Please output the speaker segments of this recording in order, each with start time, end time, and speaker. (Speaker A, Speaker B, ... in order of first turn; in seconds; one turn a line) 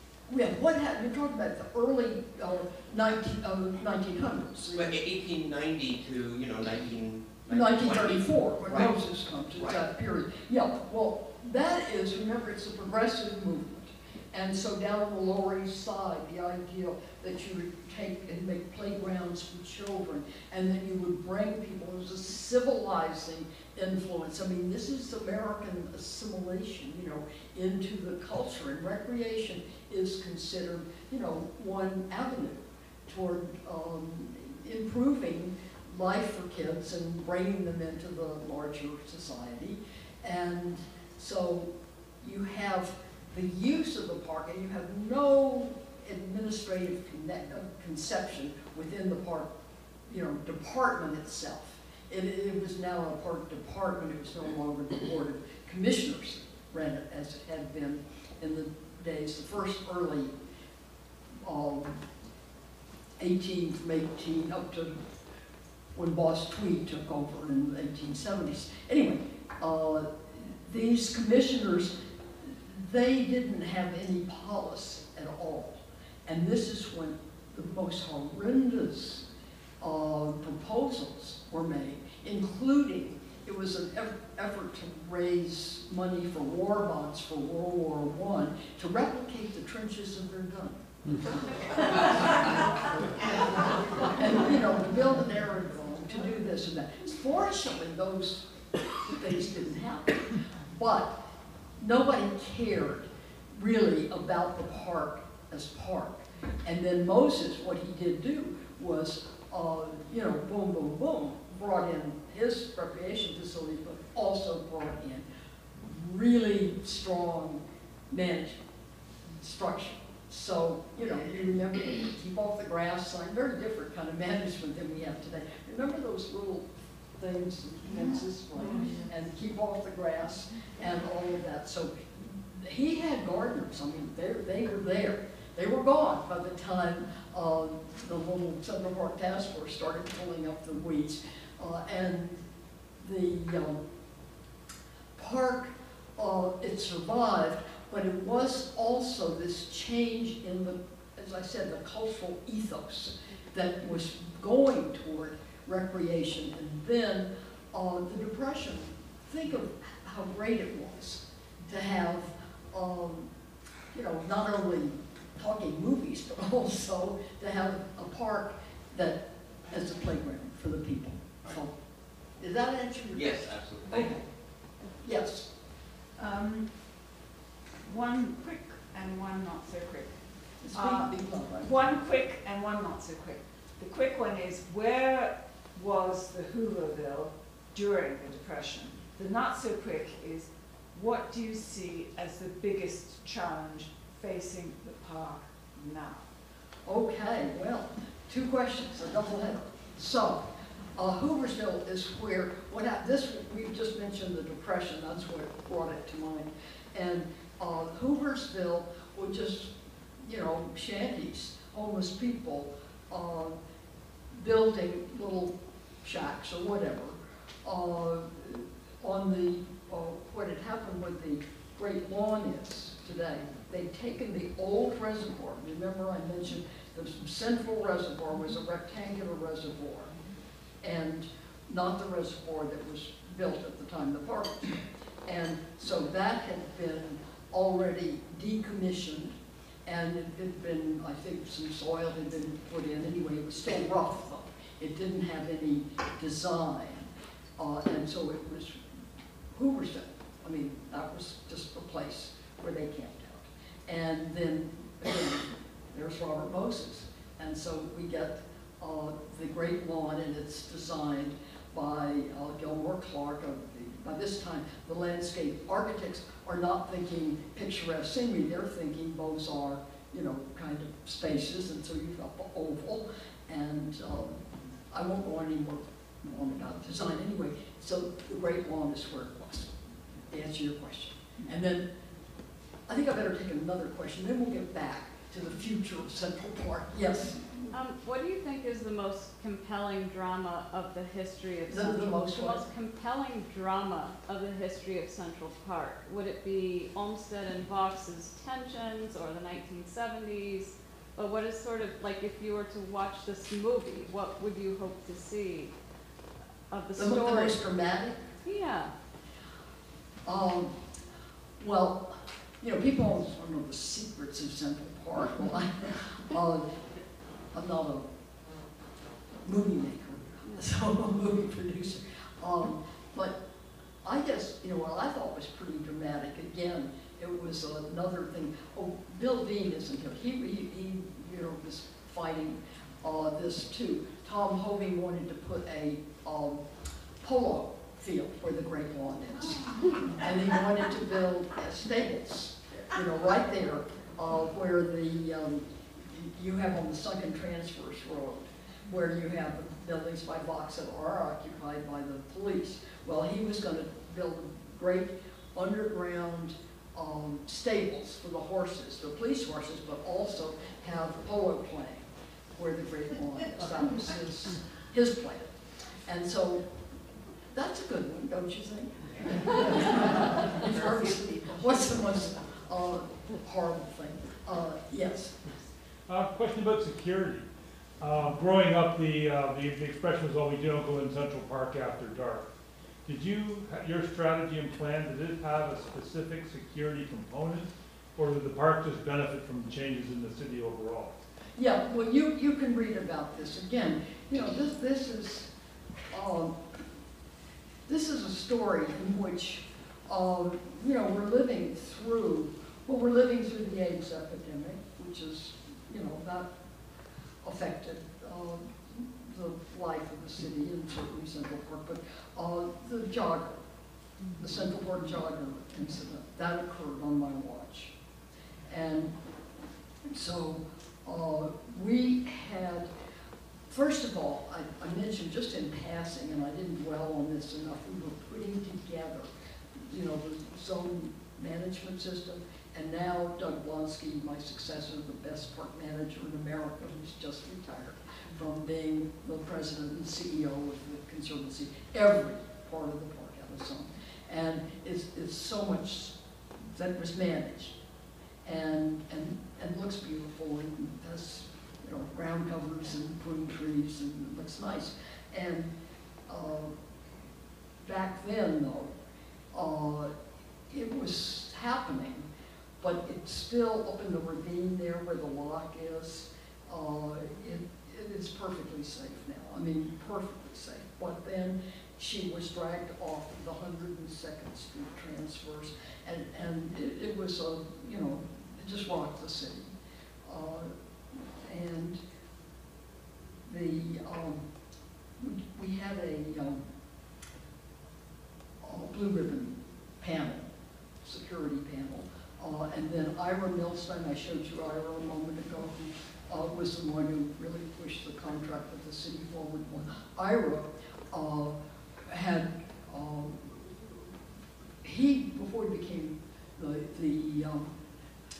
Speaker A: 0.3-4.9
Speaker B: 4.7-9.0
Speaker A: 7.5-49.5
Speaker A: 50.1-60.3
Speaker A: 61.4-62.0
Speaker A: 63.2-64.9
Speaker A: 65.9-79.2
Speaker A: 79.8-101.2
Speaker A: 101.8-115.2
Speaker A: 115.8-118.6
Speaker A: 119.3-142.4
Speaker A: 143.0-143.8
Speaker A: 145.2-163.3
Speaker A: 163.9-171.7
Speaker A: 172.4-174.2
Speaker B: 173.1-174.2
Speaker A: 175.0-175.5
Speaker C: 176.2-176.7
Speaker C: 177.8-180.2
Speaker A: 180.6-181.7
Speaker C: 180.7-196.2
Speaker A: 196.8-213.6
Speaker A: 214.3-230.1
Speaker A: 230.8-248.8
Speaker A: 249.5-279.7
Speaker A: 280.3-281.9
Speaker A: 282.9-287.6
Speaker D: 287.7-305.7
Speaker A: 291.7-292.6
Speaker D: 306.7-307.6
Speaker A: 306.9-308.2
Speaker D: 308.4-308.9
Speaker A: 310.2-310.8
Speaker A: 311.6-316.9
Speaker A: 317.5-318.1
Speaker A: 319.4-323.3
Speaker A: 324.0-336.6
Speaker A: 337.2-366.7
Speaker A: 367.5-375.5
Speaker C: 370.6-371.4
Speaker E: 376.1-377.4
Speaker E: 378.0-382.5
Speaker E: 383.0-391.2
Speaker A: 391.6-395.5
Speaker A: 396.1-396.6
Speaker A: 397.9-406.5
Speaker A: 407.4-413.6
Speaker A: 414.4-417.9
Speaker A: 418.7-419.1
Speaker A: 420.0-422.9
Speaker A: 423.7-447.8
Speaker A: 448.4-455.7
Speaker A: 456.3-456.7
Speaker A: 457.8-458.9
Speaker A: 459.5-460.1
Speaker A: 460.7-462.3
Speaker A: 462.8-479.7
Speaker A: 480.2-482.0
Speaker A: 483.4-484.4
Speaker A: 485.2-486.6
Speaker A: 488.6-490.5
Speaker A: 491.0-503.9
Speaker A: 504.8-507.7